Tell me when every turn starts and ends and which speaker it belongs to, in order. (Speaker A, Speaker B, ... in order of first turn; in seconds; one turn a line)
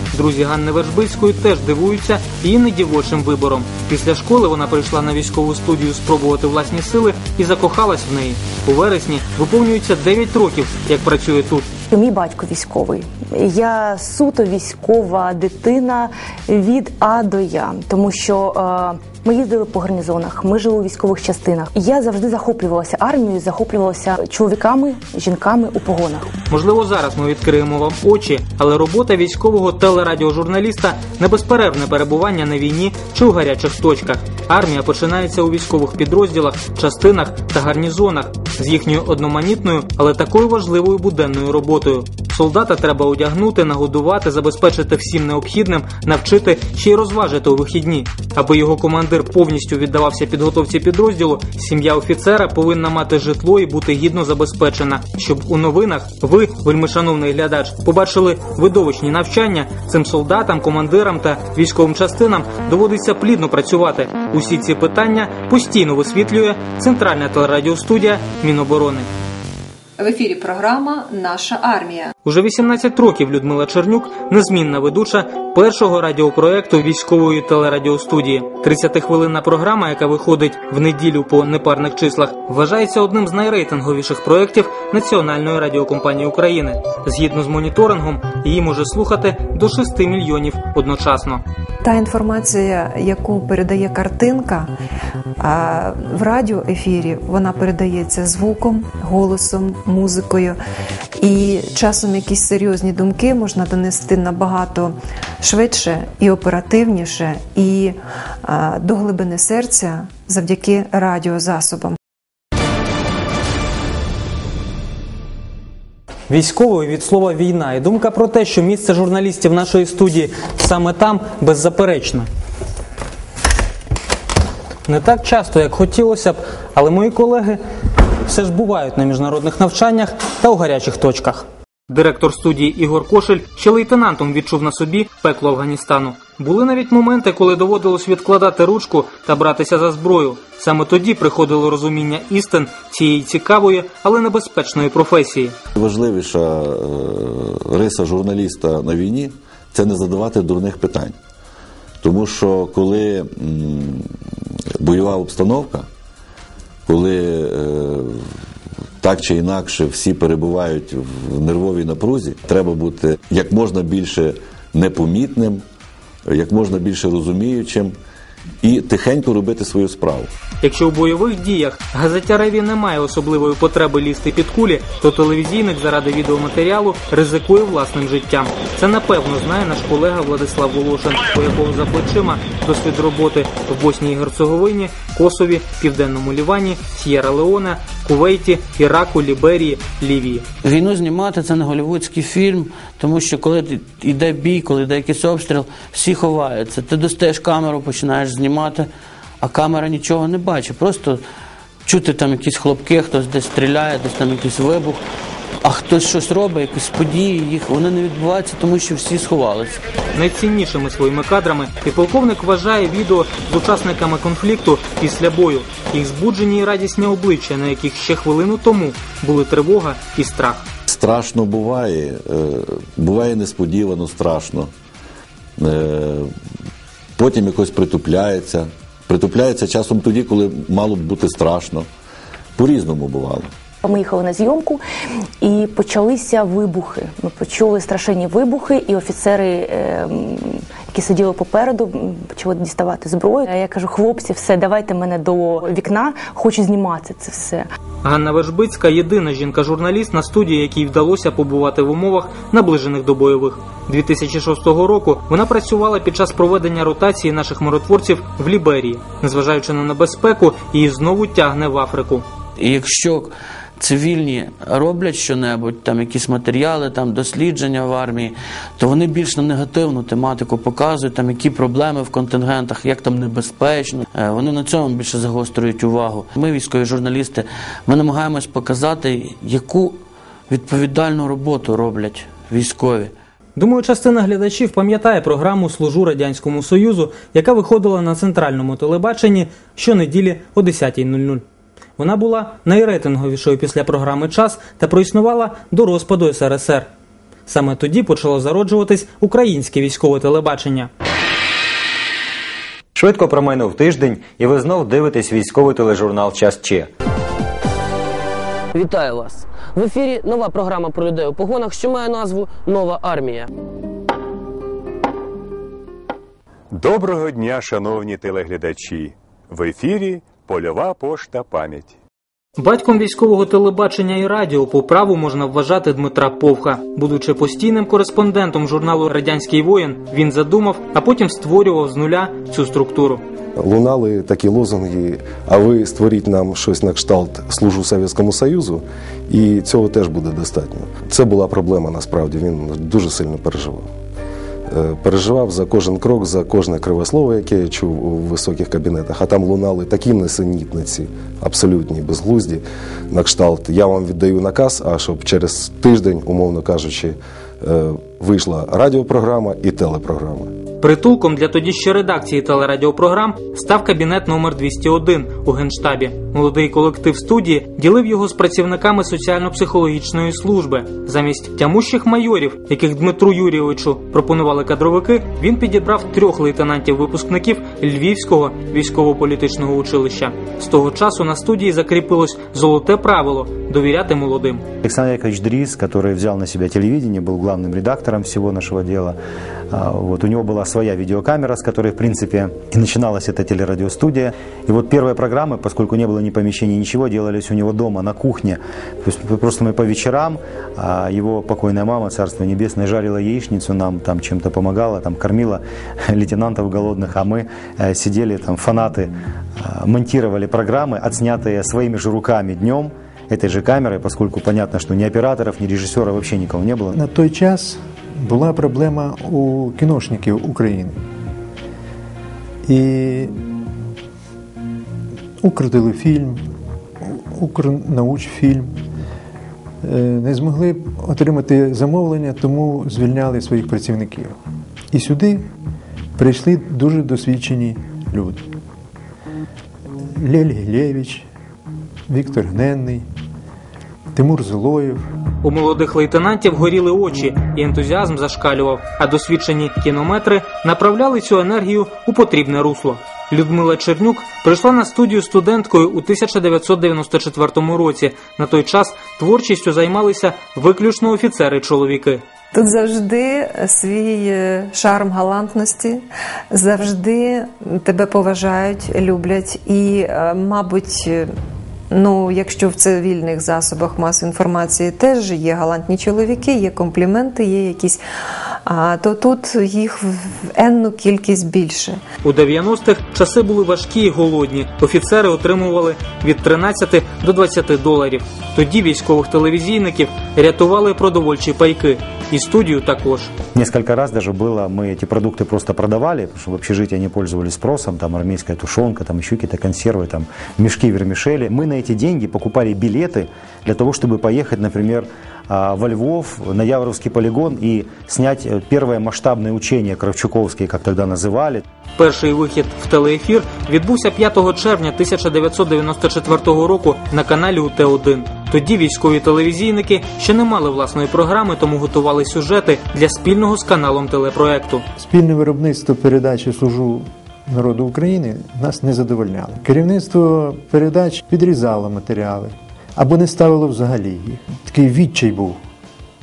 Speaker A: 0.1-11.7
Speaker B: 11.9-26.3
Speaker A: 26.5-69.1
Speaker C: 70.0-72.1
Speaker A: 72.2-91.4
Speaker C: 91.8-94.7
Speaker C: 95.4-100.6
Speaker C: 101.2-112.0
Speaker A: 116.3-122.3
Speaker A: 124.9-127.6
Speaker A: 128.3-145.6
Speaker D: 145.8-151.2
Speaker D: 152.0-154.0
Speaker D: 154.8-155.9
Speaker D: 156.9-158.2
Speaker D: 159.0-165.7
Speaker D: 166.3-168.0
Speaker D: 168.6-170.3
Speaker A: 170.6-190.5
Speaker E: 190.6-198.9
Speaker E: 199.4-201.2
Speaker E: 201.9-205.0
Speaker E: 205.6-209.8
Speaker A: 210.2-220.7
Speaker D: 220.9-224.7
Speaker D: 225.6-226.3
Speaker D: 227.2-231.9
Speaker D: 232.6-233.5
Speaker B: 233.8-234.8
Speaker B: 235.4-247.7
Speaker A: 248.0-262.3
Speaker E: 262.6-280.0
Speaker E: 280.5-283.1
Speaker A: 283.6-291.4
Speaker A: 292.0-296.9
Speaker A: 297.5-300.9
Speaker F: 303.0-306.9
Speaker G: 308.8-313.5
Speaker H: 316.8-321.9
Speaker A: 322.6-333.2
Speaker I: 333.6-343.9
Speaker I: 344.7-360.5
Speaker A: 360.8-384.6
Speaker F: 384.8-389.2
Speaker F: 389.7-417.0
Speaker J: 416.9-421.0
Speaker J: 422.6-423.3
Speaker J: 425.4-426.4
Speaker J: 427.0-428.7
Speaker J: 429.8-434.4
Speaker J: 434.9-435.5
Speaker J: 436.2-438.5
Speaker J: 440.2-441.3
Speaker J: 442.1-443.1
Speaker J: 444.1-445.1
Speaker A: 445.4-462.2
Speaker C: 462.6-471.2
Speaker C: 471.9-478.0
Speaker C: 478.6-482.0
Speaker A: 482.2-493.3
Speaker F: 493.5-511.6
Speaker A: 512.0-524.8
Speaker J: 525.0-535.6